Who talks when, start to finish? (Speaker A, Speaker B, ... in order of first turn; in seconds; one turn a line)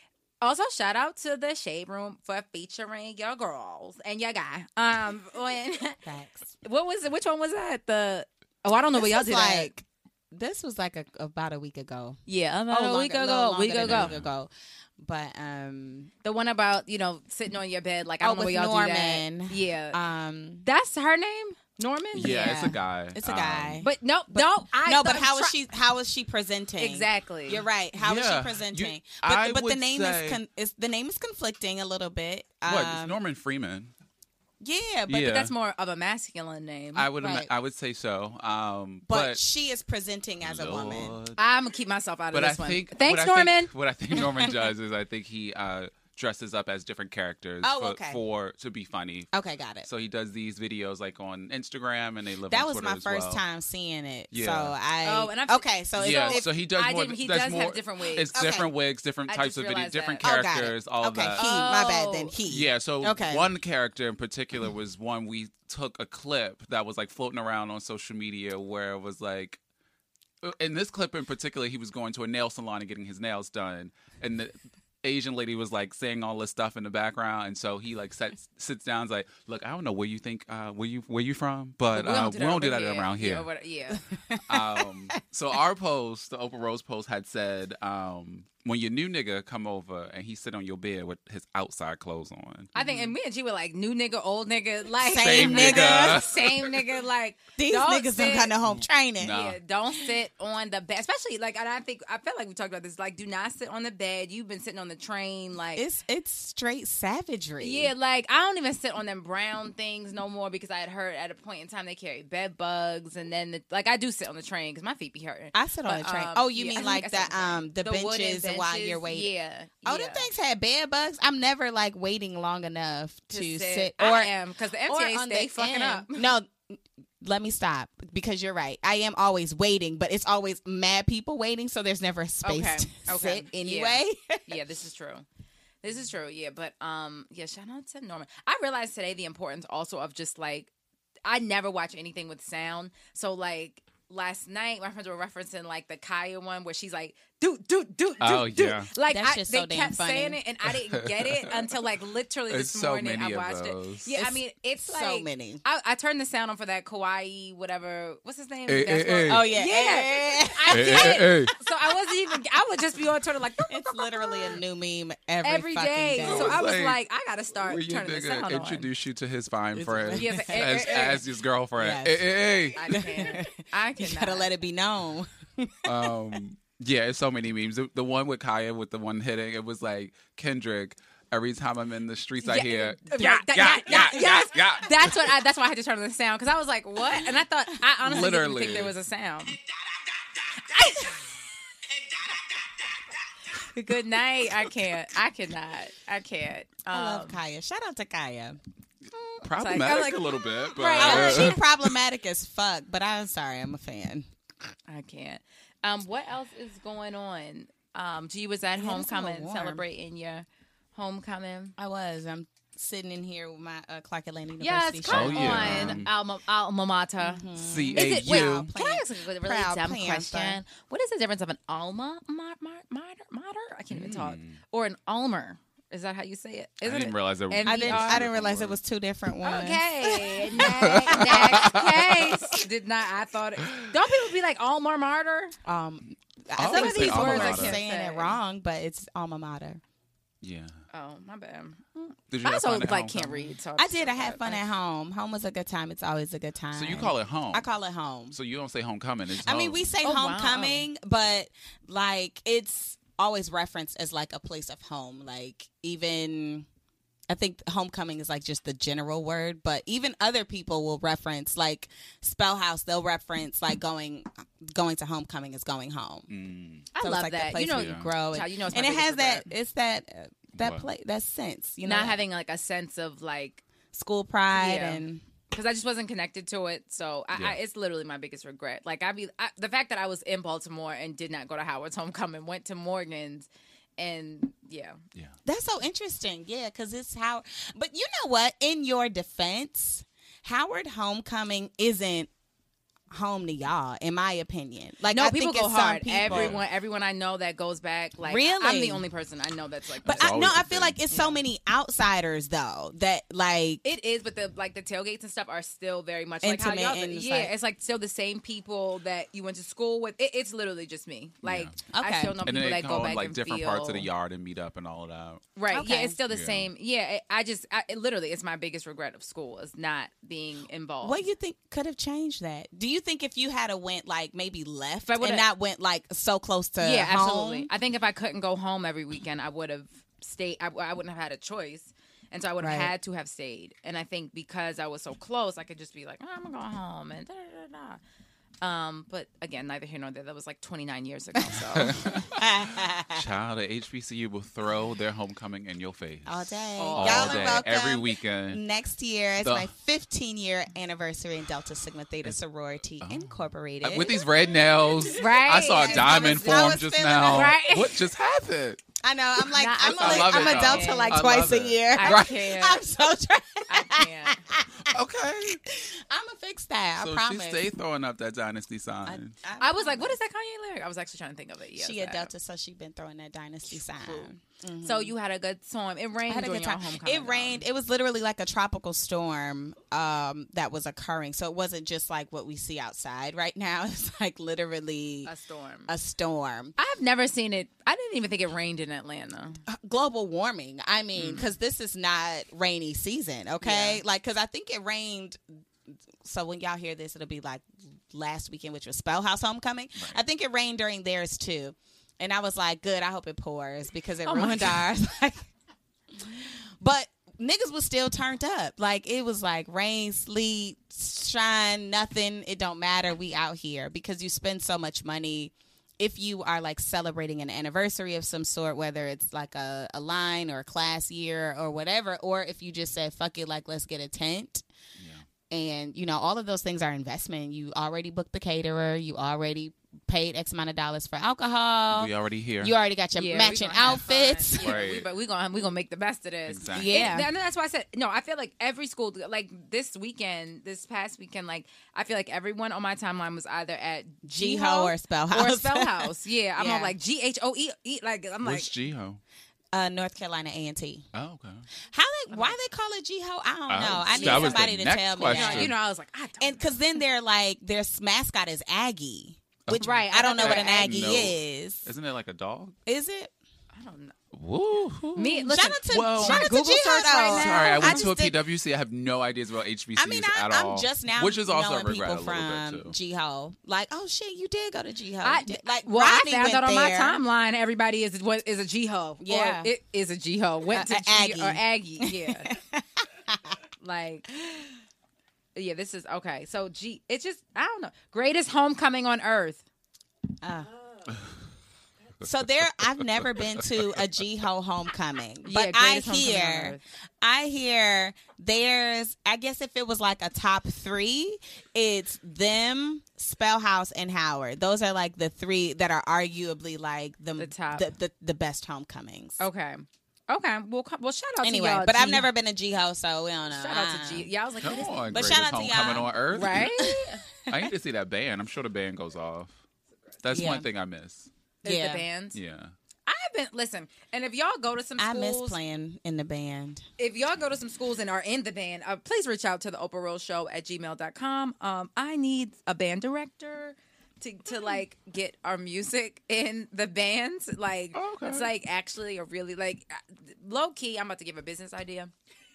Speaker A: 0.4-6.0
Speaker B: 6.0-6.5
Speaker A: 6.6-9.7
Speaker B: 8.9-16.1
Speaker A: 12.3-14.1
Speaker C: 13.8-14.3
Speaker A: 16.2-20.0
Speaker B: 18.2-20.7
Speaker A: 20.6-22.8
Speaker C: 22.1-23.8
Speaker B: 22.1-33.1
Speaker A: 23.8-25.5
Speaker A: 26.8-27.6
Speaker C: 27.9-30.4
Speaker C: 32.6-33.9
Speaker B: 34.6-35.3
Speaker C: 35.1-35.5
Speaker A: 35.2-37.1
Speaker C: 36.9-39.4
Speaker B: 37.2-37.5
Speaker B: 39.1-41.1
Speaker C: 40.4-41.4
Speaker A: 41.4-43.7
Speaker C: 42.3-53.4
Speaker B: 47.6-48.2
Speaker B: 49.3-49.9
Speaker B: 52.5-56.5
Speaker C: 54.3-54.8
Speaker A: 55.0-58.3
Speaker C: 56.0-61.5
Speaker B: 58.3-58.7
Speaker A: 59.3-60.2
Speaker B: 60.2-63.5
Speaker A: 61.4-62.3
Speaker C: 62.5-69.6
Speaker C: 70.4-83.5
Speaker A: 81.9-84.0
Speaker B: 84.1-84.8
Speaker C: 84.5-93.1
Speaker A: 92.7-98.5
Speaker B: 95.0-96.3
Speaker C: 95.0-96.8
Speaker B: 97.6-99.3
Speaker C: 98.7-99.6
Speaker A: 99.2-105.8
Speaker B: 105.7-107.9
Speaker A: 107.6-120.3
Speaker B: 115.5-119.3
Speaker B: 119.8-124.3
Speaker A: 123.3-126.3
Speaker B: 124.9-134.5
Speaker A: 132.4-135.2
Speaker A: 135.8-140.7
Speaker A: 141.2-164.5
Speaker C: 148.2-148.9
Speaker B: 149.1-150.4
Speaker C: 150.9-151.3
Speaker C: 152.5-154.1
Speaker B: 154.2-155.6
Speaker C: 158.7-159.5
Speaker B: 159.3-162.2
Speaker C: 160.7-161.5
Speaker B: 163.7-166.7
Speaker A: 165.4-168.9
Speaker C: 166.2-167.0
Speaker C: 167.6-173.0
Speaker B: 169.7-171.2
Speaker A: 170.2-171.2
Speaker B: 171.8-172.3
Speaker A: 172.8-174.5
Speaker B: 172.9-176.1
Speaker C: 175.8-185.3
Speaker A: 182.4-189.6
Speaker B: 183.2-184.4
Speaker C: 188.0-188.9
Speaker A: 190.6-191.2
Speaker A: 193.5-197.4
Speaker B: 196.9-198.6
Speaker A: 199.4-201.6
Speaker C: 199.4-201.6
Speaker B: 200.9-204.3
Speaker A: 204.9-211.7
Speaker B: 208.7-209.8
Speaker B: 211.8-216.0
Speaker A: 214.6-228.2
Speaker C: 215.1-216.1
Speaker B: 217.2-220.6
Speaker C: 217.6-218.7
Speaker C: 223.9-224.6
Speaker C: 226.8-228.8
Speaker B: 227.6-231.8
Speaker A: 229.4-235.5
Speaker C: 230.6-232.3
Speaker B: 235.6-239.8
Speaker C: 236.6-237.8
Speaker A: 236.6-238.4
Speaker C: 240.4-240.8
Speaker A: 240.9-244.6
Speaker C: 242.3-243.6
Speaker B: 243.8-248.4
Speaker C: 246.7-247.7
Speaker C: 248.3-249.8
Speaker B: 249.4-256.7
Speaker A: 250.0-250.9
Speaker B: 257.3-266.3
Speaker C: 266.3-266.9
Speaker A: 266.9-269.5
Speaker B: 267.0-272.2
Speaker C: 267.7-268.1
Speaker C: 270.6-270.9
Speaker A: 271.8-273.6
Speaker B: 273.9-275.2
Speaker A: 274.5-285.0
Speaker C: 277.3-277.6
Speaker B: 285.4-292.3
Speaker B: 293.1-296.6
Speaker A: 295.1-301.4
Speaker C: 296.2-296.6
Speaker B: 298.2-299.0
Speaker C: 300.0-301.0
Speaker B: 300.0-303.8
Speaker A: 303.8-314.1
Speaker B: 306.4-307.5
Speaker C: 311.4-311.8
Speaker B: 311.9-312.3
Speaker C: 312.4-315.5
Speaker A: 315.6-321.2
Speaker B: 315.7-316.2
Speaker C: 316.3-316.7
Speaker B: 321.0-327.7
Speaker A: 325.0-325.5
Speaker A: 326.8-338.0
Speaker B: 332.6-332.9
Speaker A: 338.6-342.2
Speaker C: 341.5-348.6
Speaker B: 342.3-343.2
Speaker B: 346.2-354.2
Speaker A: 346.8-347.6
Speaker C: 349.4-349.7
Speaker C: 353.0-358.8
Speaker A: 355.1-358.0
Speaker B: 355.3-357.6
Speaker B: 359.0-364.7
Speaker A: 359.5-361.2
Speaker C: 359.9-362.3
Speaker A: 361.9-362.9
Speaker A: 363.7-364.4
Speaker C: 364.8-365.6
Speaker B: 365.6-367.6
Speaker C: 367.0-369.3
Speaker B: 369.1-370.1
Speaker A: 369.6-372.3
Speaker B: 371.8-375.1
Speaker A: 374.8-377.6
Speaker B: 376.3-385.3
Speaker A: 385.2-385.9
Speaker B: 385.9-386.8
Speaker A: 386.8-389.6
Speaker B: 389.7-395.4
Speaker A: 391.1-391.4
Speaker A: 393.6-394.0
Speaker B: 396.2-405.5
Speaker A: 404.2-404.9
Speaker B: 406.2-424.6
Speaker C: 425.0-425.2
Speaker B: 425.5-434.8
Speaker C: 431.9-432.8
Speaker A: 433.2-448.7
Speaker C: 434.6-435.1
Speaker C: 436.5-437.2
Speaker B: 436.7-437.3
Speaker B: 444.2-446.9
Speaker C: 448.4-449.2
Speaker B: 449.7-451.1
Speaker C: 451.1-451.7
Speaker B: 451.9-455.7
Speaker A: 452.3-452.6
Speaker C: 453.7-455.7
Speaker A: 454.1-454.7
Speaker A: 455.2-456.7
Speaker B: 456.4-461.9
Speaker C: 459.6-462.8
Speaker A: 459.8-460.9
Speaker B: 462.9-463.3
Speaker A: 463.7-464.1
Speaker C: 464.3-466.7
Speaker A: 465.1-468.1
Speaker B: 465.5-468.4
Speaker C: 467.3-472.9
Speaker B: 469.9-477.2
Speaker A: 475.2-482.5
Speaker B: 479.2-479.7
Speaker B: 480.7-483.6
Speaker A: 483.8-484.3
Speaker A: 485.5-489.6
Speaker B: 490.4-490.7
Speaker C: 491.1-491.3
Speaker B: 492.2-509.4
Speaker C: 492.2-494.0
Speaker A: 495.4-496.8
Speaker A: 507.4-507.9
Speaker A: 509.4-512.3
Speaker B: 511.4-514.3
Speaker A: 513.5-515.4
Speaker C: 514.6-516.9
Speaker B: 515.1-517.6
Speaker A: 516.3-517.0
Speaker C: 517.5-519.6
Speaker C: 520.2-521.3
Speaker B: 520.3-520.7
Speaker B: 521.6-522.0
Speaker A: 521.6-522.4
Speaker C: 522.3-522.7
Speaker A: 523.0-525.6
Speaker B: 525.0-526.8
Speaker A: 527.0-542.1
Speaker C: 537.9-538.5